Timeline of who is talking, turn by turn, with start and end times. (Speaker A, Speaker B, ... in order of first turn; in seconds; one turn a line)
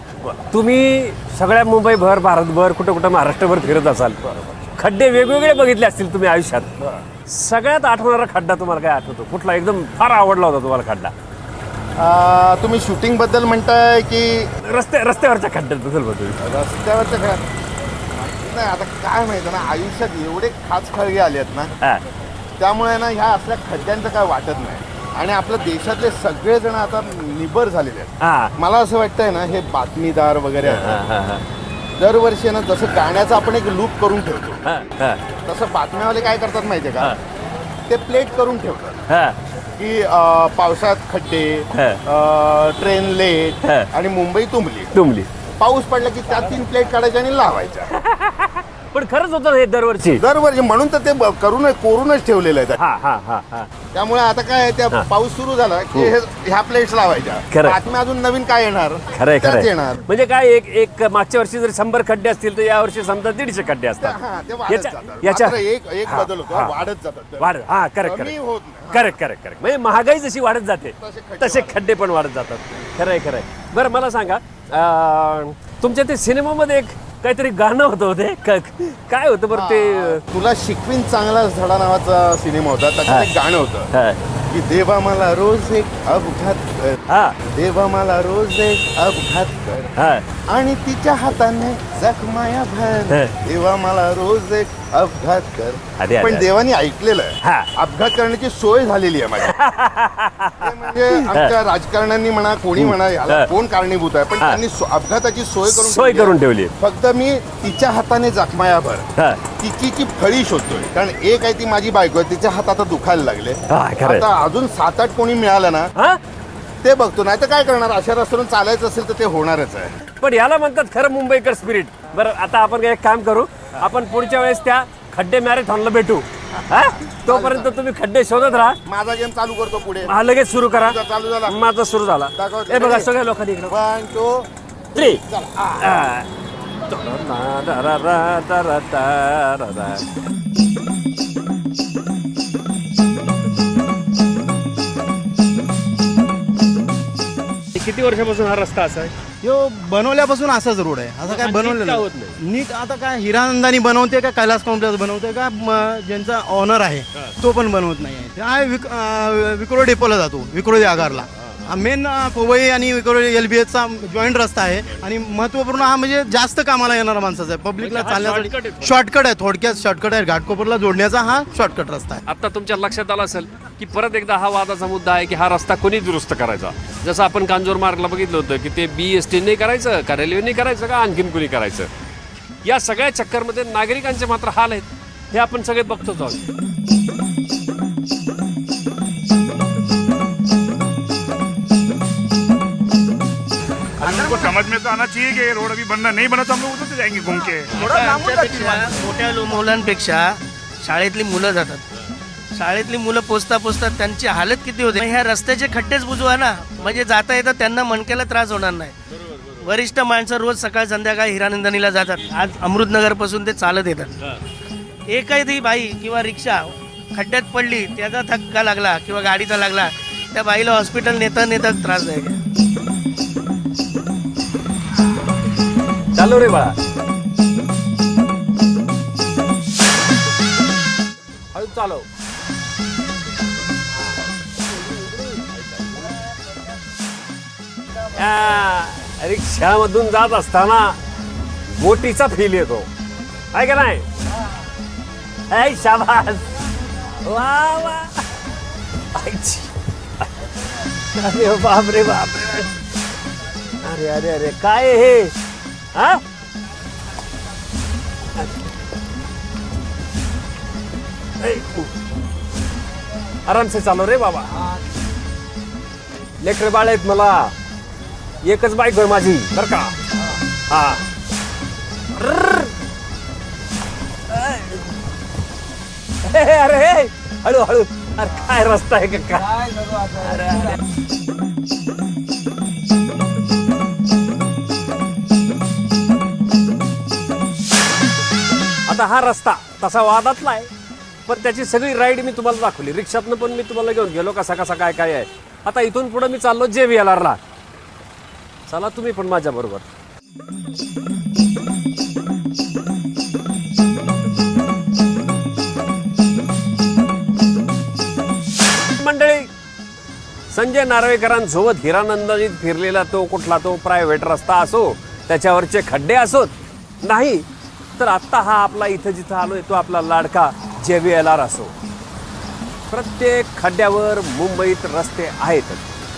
Speaker A: 0.5-6.7
Speaker B: 4.2-4.6
Speaker A: 7.3-11.1
Speaker B: 12.0-14.5
Speaker A: 14.6-16.4
Speaker B: 16.4-17.4
Speaker B: 18.3-21.7
Speaker B: 22.6-31.0
Speaker A: 28.2-28.5
Speaker A: 30.7-31.4
Speaker B: 32.0-34.7
Speaker A: 34.7-35.2
Speaker B: 35.4-37.2
Speaker B: 37.9-39.0
Speaker A: 39.1-39.4
Speaker B: 39.8-44.9
Speaker A: 41.8-42.0
Speaker A: 43.6-43.9
Speaker A: 45.0-45.3
Speaker B: 45.6-48.0
Speaker A: 48.0-50.2
Speaker B: 50.2-52.8
Speaker A: 52.8-53.7
Speaker B: 53.9-60.0
Speaker A: 57.5-57.8
Speaker A: 59.2-66.8
Speaker B: 64.0-69.1
Speaker A: 67.4-68.3
Speaker A: 68.9-80.2
Speaker B: 71.0-71.8
Speaker B: 79.5-83.9
Speaker A: 83.9-84.2
Speaker B: 84.5-89.9
Speaker A: 87.1-87.4
Speaker A: 90.0-90.3
Speaker B: 90.4-99.6
Speaker A: 96.0-96.5
Speaker A: 97.4-97.7
Speaker A: 99.4-101.5
Speaker B: 100.6-109.1
Speaker A: 102.8-103.5
Speaker A: 105.7-106.7
Speaker A: 109.2-109.5
Speaker B: 109.6-115.9
Speaker A: 113.7-114.3
Speaker B: 116.8-119.9
Speaker A: 120.2-128.8
Speaker B: 127.1-127.7
Speaker B: 128.9-130.1
Speaker A: 130.1-133.8
Speaker B: 130.8-131.6
Speaker B: 132.3-133.1
Speaker B: 133.7-134.5
Speaker A: 134.9-135.2
Speaker B: 135.3-136.0
Speaker A: 135.8-136.3
Speaker A: 136.9-140.1
Speaker A: 147.7-149.1
Speaker C: 149.4-172.2
Speaker A: 151.2-152.4
Speaker A: 167.8-169.0
Speaker A: 172.3-181.9
Speaker A: 182.6-186.4
Speaker D: 194.0-197.8
Speaker E: 197.7-201.8
Speaker E: 202.6-208.9
Speaker E: 209.5-214.3
Speaker E: 215.1-222.4
Speaker A: 226.2-226.8
Speaker A: 231.5-232.1
Speaker A: 238.2-241.0
Speaker A: 241.7-242.9
Speaker A: 243.5-244.1
Speaker A: 245.5-248.2
Speaker A: 249.2-249.7
Speaker A: 251.1-252.7
Speaker A: 253.8-255.3
Speaker A: 255.9-256.2
Speaker A: 261.4-261.9
Speaker A: 263.5-264.6
Speaker A: 266.4-267.5
Speaker A: 268.4-270.0
Speaker A: 270.7-271.0
Speaker A: 272.1-272.7
Speaker A: 274.3-274.9
Speaker A: 276.2-280.8
Speaker A: 288.9-290.7
Speaker A: 291.3-297.4
Speaker A: 298.7-299.9
Speaker A: 309.0-309.5
Speaker A: 310.5-317.5
Speaker A: 318.0-321.7
Speaker A: 322.9-325.8